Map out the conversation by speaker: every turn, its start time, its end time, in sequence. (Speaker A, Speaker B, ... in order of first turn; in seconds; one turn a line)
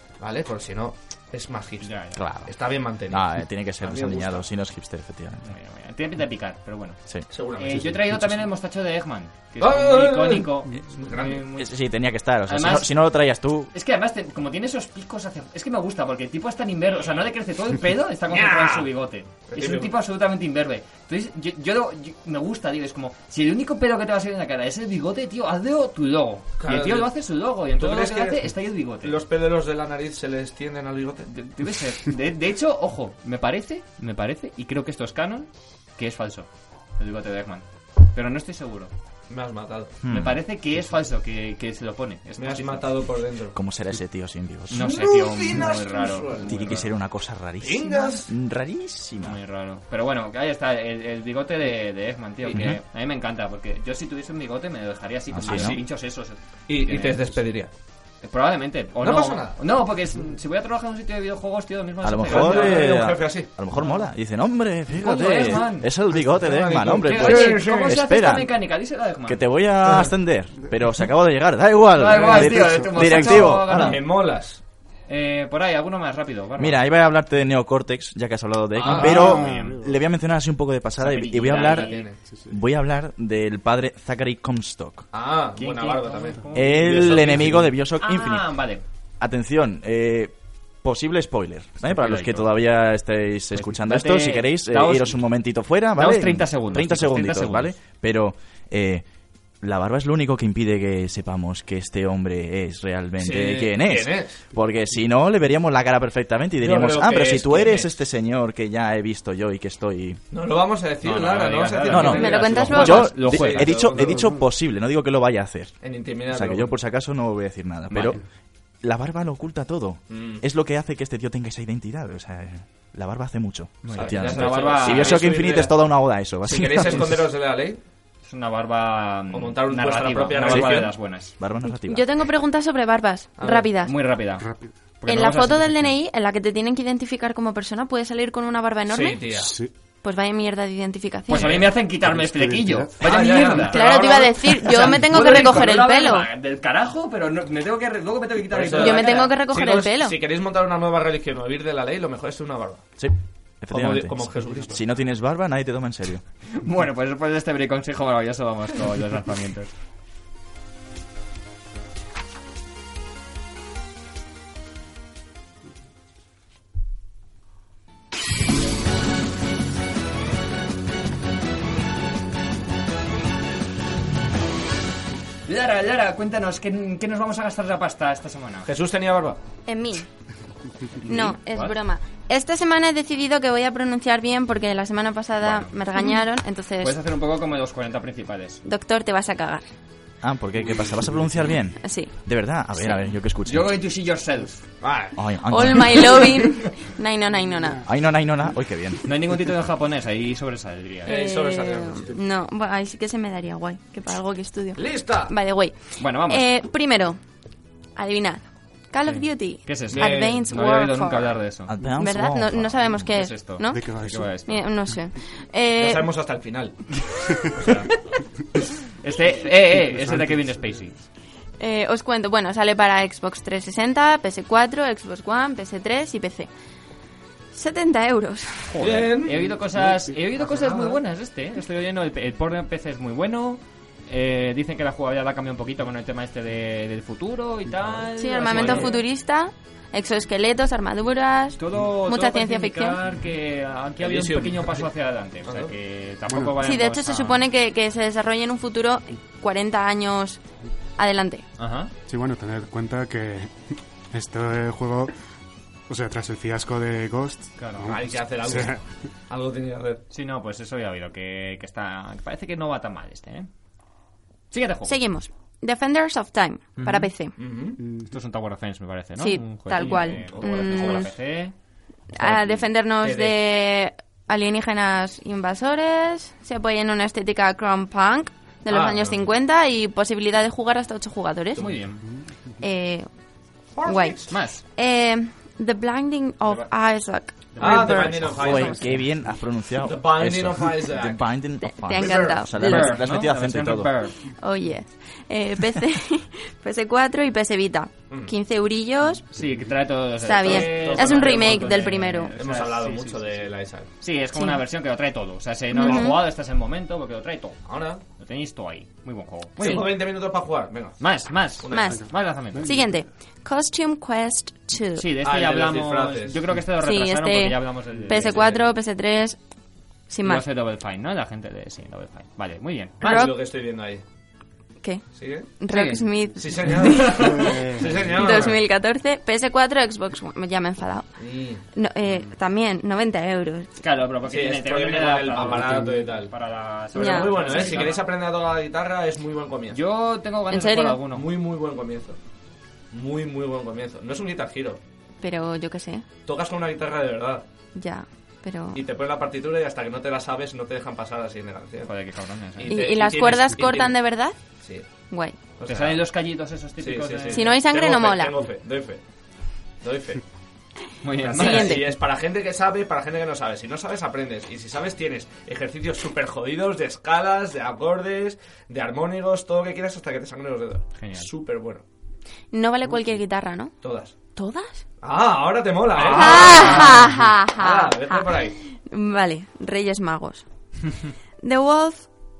Speaker A: 0.2-4.5
Speaker B: 1.8-2.2
Speaker C: 2.1-2.5
Speaker C: 3.1-5.5
Speaker B: 5.4-7.0
Speaker A: 7.3-8.0
Speaker B: 7.5-11.7
Speaker A: 9.6-11.4
Speaker C: 11.6-13.7
Speaker B: 12.4-13.0
Speaker B: 13.7-29.2
Speaker A: 18.3-18.9
Speaker A: 19.5-19.9
Speaker A: 26.6-27.1
Speaker A: 27.7-31.3
Speaker B: 31.3-38.9
Speaker A: 39.3-40.0
Speaker C: 40.0-40.4
Speaker B: 40.1-42.9
Speaker A: 42.4-43.6
Speaker C: 43.5-44.9
Speaker A: 44.7-46.8
Speaker B: 44.7-46.9
Speaker C: 46.5-49.4
Speaker A: 47.6-48.3
Speaker B: 49.2-57.4
Speaker A: 52.4-52.7
Speaker C: 52.5-52.8
Speaker C: 55.3-55.8
Speaker A: 55.4-55.8
Speaker A: 56.7-57.7
Speaker B: 58.2-62.9
Speaker A: 59.0-59.6
Speaker C: 62.0-68.5
Speaker A: 62.2-63.5
Speaker B: 63.7-64.1
Speaker B: 64.9-65.9
Speaker A: 65.4-68.0
Speaker B: 67.0-69.5
Speaker C: 69.2-74.0
Speaker A: 69.8-70.1
Speaker B: 71.9-74.0
Speaker A: 72.1-74.6
Speaker D: 72.3-73.0
Speaker B: 75.1-76.8
Speaker C: 76.6-81.9
Speaker B: 78.8-79.8
Speaker A: 78.8-79.4
Speaker D: 78.8-80.0
Speaker B: 81.0-82.1
Speaker A: 81.4-82.2
Speaker D: 82.3-82.6
Speaker C: 82.5-85.0
Speaker A: 85.1-87.7
Speaker B: 85.6-88.8
Speaker C: 86.5-88.5
Speaker C: 89.2-99.0
Speaker B: 91.8-92.5
Speaker B: 93.5-95.2
Speaker B: 95.9-97.7
Speaker C: 99.6-110.2
Speaker A: 103.2-104.4
Speaker A: 106.6-107.9
Speaker A: 110.3-114.3
Speaker B: 111.0-113.9
Speaker C: 111.9-118.2
Speaker E: 112.1-113.1
Speaker D: 113.9-114.4
Speaker A: 115.8-116.7
Speaker B: 117.9-118.2
Speaker C: 118.8-127.2
Speaker A: 120.1-120.4
Speaker B: 123.8-125.3
Speaker A: 123.9-125.8
Speaker A: 126.4-127.8
Speaker B: 128.2-131.3
Speaker A: 129.3-130.9
Speaker C: 130.4-132.1
Speaker E: 131.7-133.9
Speaker A: 133.4-133.7
Speaker B: 133.8-135.9
Speaker D: 134.4-134.7
Speaker E: 135.1-139.2
Speaker A: 138.9-139.5
Speaker D: 139.3-139.7
Speaker E: 140.0-141.6
Speaker B: 141.3-149.4
Speaker A: 141.3-141.7
Speaker D: 141.9-143.1
Speaker A: 143.0-145.7
Speaker E: 143.6-146.3
Speaker A: 148.5-152.9
Speaker E: 148.8-150.2
Speaker C: 153.0-156.2
Speaker A: 153.7-154.8
Speaker D: 154.4-154.8
Speaker B: 156.5-159.7
Speaker B: 175.4-178.7
Speaker A: 178.7-179.4
Speaker E: 179.7-180.1
Speaker B: 181.0-181.8
Speaker E: 181.1-187.0
Speaker B: 185.4-185.7
Speaker B: 186.8-188.6
Speaker E: 188.6-189.7
Speaker C: 190.2-193.8
Speaker E: 191.8-192.1
Speaker E: 192.7-193.0
Speaker B: 193.4-194.6
Speaker A: 194.8-195.2
Speaker C: 195.1-196.3
Speaker E: 195.4-197.8
Speaker A: 195.9-196.2
Speaker D: 197.4-197.8
Speaker C: 197.8-199.0
Speaker B: 199.0-201.1
Speaker A: 201.0-202.2
Speaker E: 201.1-207.2
Speaker A: 204.7-205.3
Speaker B: 206.0-206.5
Speaker E: 207.9-211.4
Speaker B: 209.0-211.7
Speaker A: 209.9-210.6
Speaker C: 211.7-213.1
Speaker E: 211.9-213.9
Speaker B: 213.1-214.6
Speaker D: 213.7-214.4
Speaker E: 214.4-216.1
Speaker A: 215.8-216.9
Speaker D: 217.5-217.7
Speaker A: 217.5-217.9
Speaker B: 218.9-221.0
Speaker A: 219.8-220.2
Speaker D: 220.0-220.5
Speaker E: 221.6-226.5
Speaker E: 227.5-228.8
Speaker B: 228.7-239.0
Speaker A: 228.8-231.0
Speaker E: 238.2-243.0
Speaker A: 238.4-239.0
Speaker B: 241.6-247.4
Speaker A: 244.0-244.9
Speaker A: 245.4-245.7
Speaker D: 246.3-246.6
Speaker E: 246.6-250.4
Speaker E: 251.0-251.4
Speaker B: 251.6-251.9
Speaker D: 252.1-255.1
Speaker D: 255.9-258.8
Speaker B: 257.6-257.9
Speaker A: 257.8-260.0
Speaker B: 260.1-263.5
Speaker B: 264.5-265.0
Speaker E: 264.9-267.4
Speaker B: 266.8-267.1
Speaker A: 267.4-267.8
Speaker D: 267.8-268.1
Speaker B: 268.1-271.5
Speaker E: 269.2-271.1
Speaker A: 269.8-271.1
Speaker E: 272.1-281.8
Speaker B: 272.2-272.7
Speaker A: 273.0-273.4
Speaker A: 278.7-279.2
Speaker B: 281.6-282.1
Speaker E: 282.6-283.1
Speaker A: 283.8-284.3
Speaker E: 283.8-288.7
Speaker B: 284.3-284.6
Speaker B: 287.5-289.0
Speaker A: 287.6-289.1
Speaker C: 288.2-293.9
Speaker A: 289.8-291.3
Speaker E: 291.6-293.0
Speaker A: 291.9-292.5
Speaker B: 292.6-294.2
Speaker E: 294.2-299.3
Speaker B: 299.3-303.4
Speaker E: 300.2-302.3
Speaker A: 300.4-303.9
Speaker B: 304.0-307.6
Speaker E: 304.3-304.6
Speaker E: 305.7-306.2
Speaker A: 307.6-308.0
Speaker B: 308.2-309.9
Speaker A: 309.6-311.0
Speaker E: 309.6-309.8
Speaker B: 311.0-312.7
Speaker A: 311.6-312.0
Speaker E: 311.7-315.1
Speaker D: 311.9-313.0
Speaker B: 314.9-318.7
Speaker A: 315.2-316.6
Speaker E: 316.8-319.4
Speaker E: 320.1-320.4
Speaker B: 320.2-323.0
Speaker A: 323.0-324.0
Speaker E: 323.0-323.4
Speaker E: 324.8-325.1
Speaker A: 325.1-325.5
Speaker E: 325.6-331.1
Speaker B: 325.7-326.1
Speaker A: 326.4-328.6
Speaker D: 327.0-328.4
Speaker A: 331.2-331.6
Speaker E: 331.7-333.7
Speaker B: 333.8-338.1
Speaker A: 334.3-336.3
Speaker D: 335.4-336.1
Speaker A: 336.9-339.8
Speaker E: 336.9-337.9
Speaker B: 339.7-341.3
Speaker E: 340.5-341.0
Speaker A: 341.1-342.2
Speaker A: 342.9-344.8
Speaker E: 345.2-346.0
Speaker A: 346.2-347.4
Speaker E: 347.7-348.8
Speaker A: 348.7-351.9
Speaker B: 351.8-352.8
Speaker A: 352.6-353.9
Speaker E: 352.7-354.4
Speaker E: 355.1-355.4
Speaker A: 355.6-356.0
Speaker B: 355.6-357.5
Speaker A: 356.8-359.0
Speaker E: 357.3-358.4
Speaker A: 359.8-360.2
Speaker B: 361.0-361.8
Speaker A: 361.2-371.8
Speaker E: 361.3-361.9
Speaker B: 370.9-371.3
Speaker E: 372.5-373.7
Speaker A: 373.8-374.1
Speaker E: 374.3-374.8
Speaker A: 375.0-378.6
Speaker B: 375.9-377.2
Speaker E: 376.0-380.4
Speaker E: 381.4-382.1